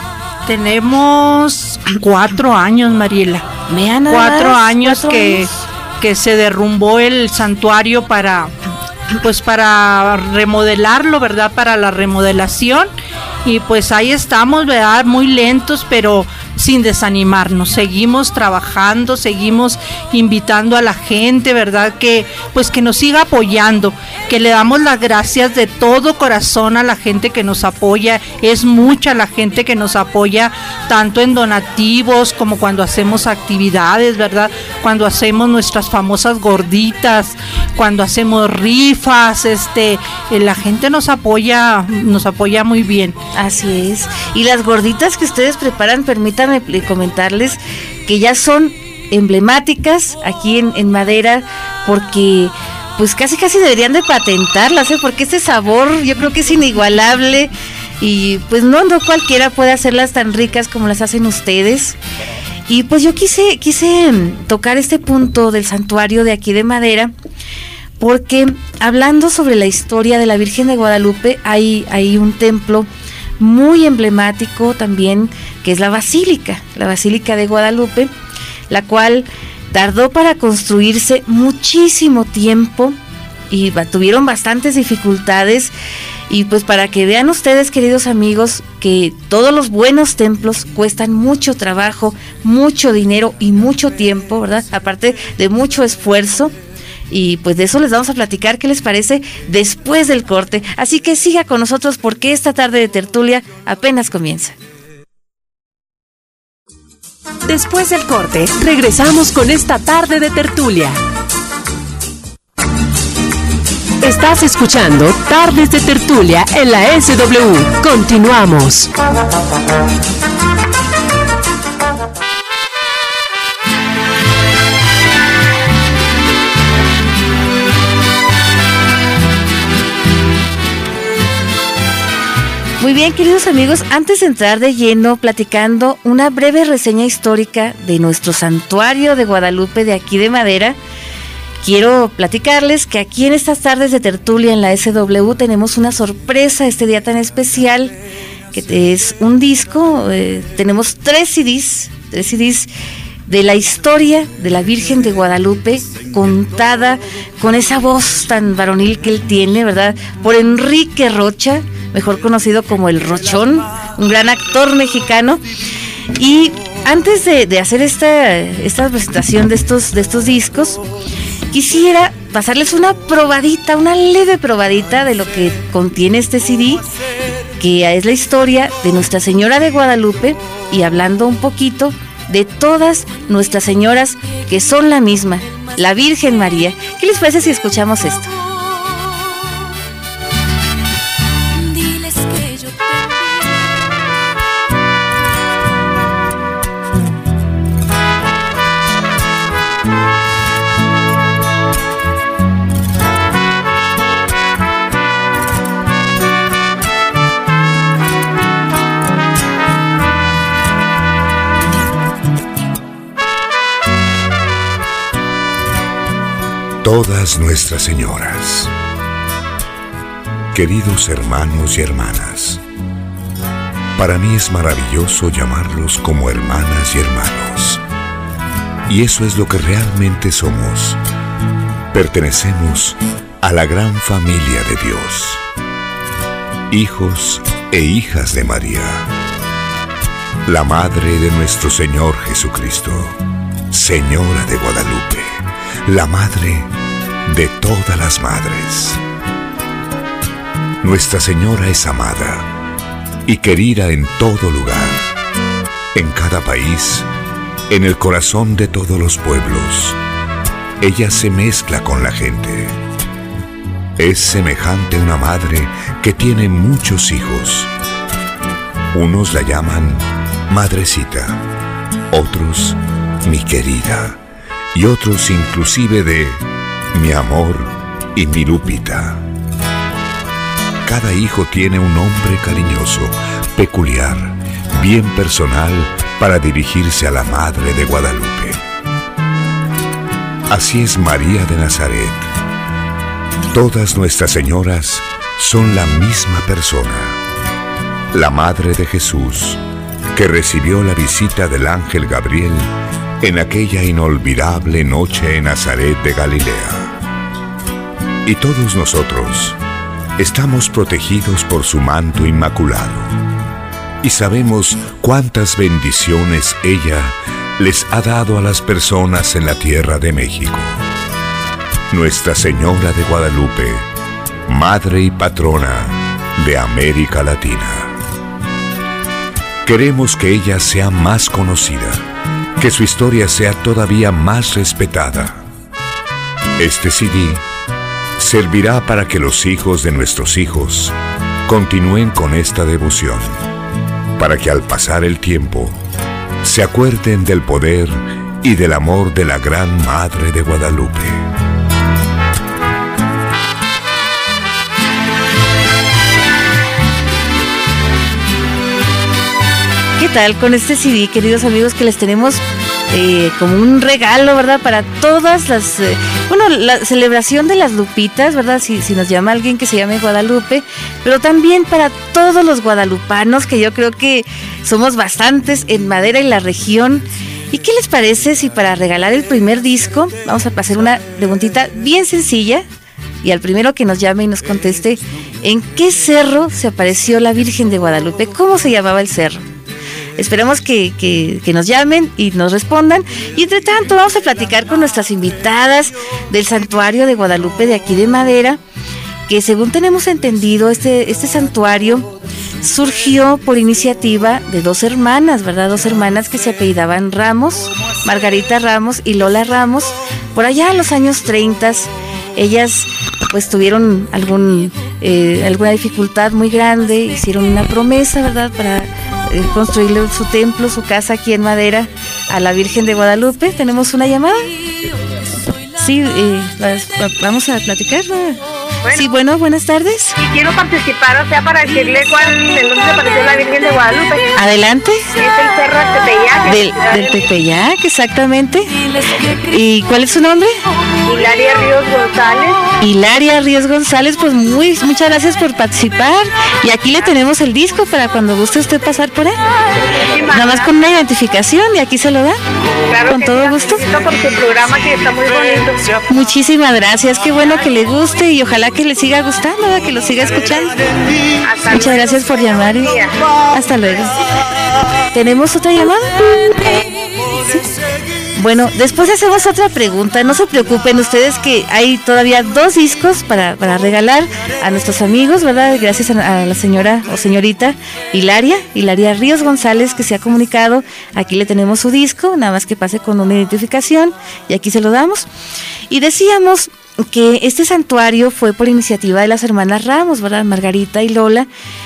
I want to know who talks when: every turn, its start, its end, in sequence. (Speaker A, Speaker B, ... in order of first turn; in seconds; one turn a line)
Speaker A: 0.5-3.5
Speaker B: 3.7-5.5
Speaker A: 4.1-8.5
Speaker A: 9.2-12.9
Speaker A: 13.4-43.2
Speaker B: 43.4-62.0
Speaker B: 62.7-67.1
Speaker B: 68.0-72.9
Speaker B: 73.4-78.1
Speaker B: 78.7-83.0
Speaker B: 83.5-85.7
Speaker B: 86.3-96.5
Speaker B: 97.1-104.5
Speaker C: 107.5-111.0
Speaker C: 114.0-118.9
Speaker B: 132.8-140.8
Speaker B: 141.6-148.0
Speaker B: 148.5-152.7
Speaker B: 153.3-165.4
Speaker B: 166.2-170.9
Speaker B: 171.5-176.8
Speaker B: 177.6-188.3
Speaker D: 216.8-218.7
Speaker D: 220.5-222.6
Speaker D: 224.0-227.8
Speaker D: 228.9-231.0
Speaker D: 231.9-235.4
Speaker D: 236.7-239.1
Speaker D: 240.4-243.2
Speaker D: 243.7-246.7
Speaker D: 247.3-249.0
Speaker D: 250.8-252.5
Speaker D: 253.3-255.0
Speaker D: 255.9-257.1
Speaker D: 257.7-260.0
Speaker D: 260.8-262.8
Speaker D: 264.0-267.7
Speaker D: 268.9-271.4
Speaker D: 272.1-274.2
Speaker D: 274.7-279.2
Speaker D: 280.9-288.6
Speaker D: 290.5-292.3
Speaker D: 293.5-297.2
Speaker D: 298.1-299.6
Speaker D: 300.1-306.9
Speaker D: 308.2-309.6
Speaker D: 310.2-313.1
Speaker D: 314.0-320.8
Speaker D: 321.9-323.9
Speaker D: 324.5-328.0
Speaker D: 329.6-332.1
Speaker D: 332.6-335.4
Speaker D: 336.6-337.4
Speaker D: 338.2-340.9
Speaker D: 341.5-343.4
Speaker D: 344.2-345.8
Speaker D: 346.4-351.3
Speaker B: 360.0-382.6
Speaker B: 383.2-389.4
Speaker B: 390.2-398.6
Speaker B: 399.3-402.1
Speaker B: 402.6-424.5
Speaker B: 425.8-430.2
Speaker E: 430.2-434.4
Speaker B: 434.4-435.1
Speaker E: 435.1-437.2
Speaker B: 436.4-438.7
Speaker B: 439.5-440.5
Speaker E: 441.1-442.6
Speaker B: 442.8-449.4
Speaker E: 450.1-450.7
Speaker B: 450.3-452.4
Speaker E: 452.9-455.8
Speaker B: 453.1-453.8
Speaker B: 456.1-460.8
Speaker E: 461.4-463.1
Speaker B: 461.6-462.9
Speaker B: 463.5-464.2
Speaker B: 465.1-466.7
Speaker B: 467.4-467.6
Speaker B: 468.4-485.3
Speaker B: 485.9-491.5